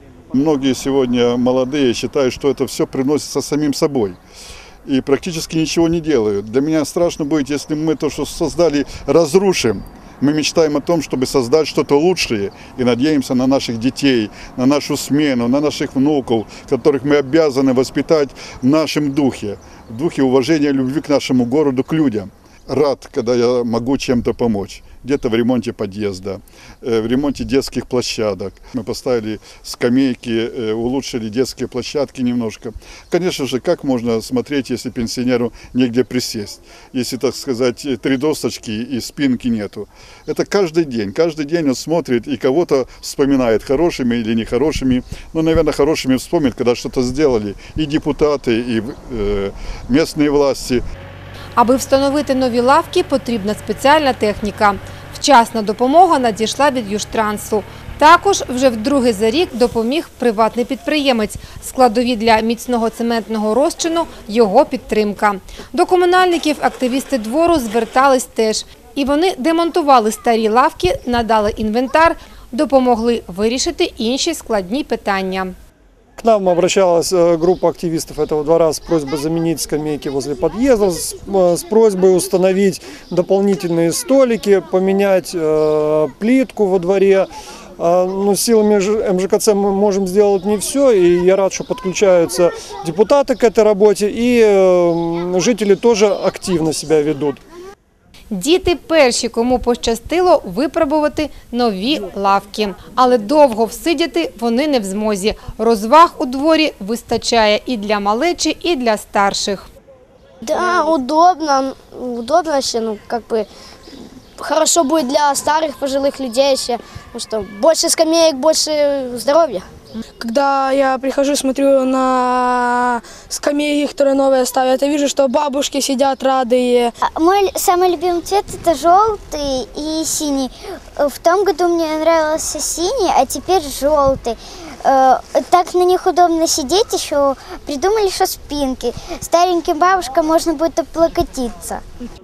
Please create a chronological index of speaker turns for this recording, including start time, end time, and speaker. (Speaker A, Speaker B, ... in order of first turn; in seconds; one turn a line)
Speaker A: 0.3-4.2
Speaker A: 4.8-50.8
Speaker B: 51.5-75.5
Speaker C: 76.2-97.4
Speaker B: 98.3-109.7
Speaker D: 110.5-113.5
Speaker D: 114.4-119.7
Speaker E: 120.2-126.9
Speaker F: 127.1-141.8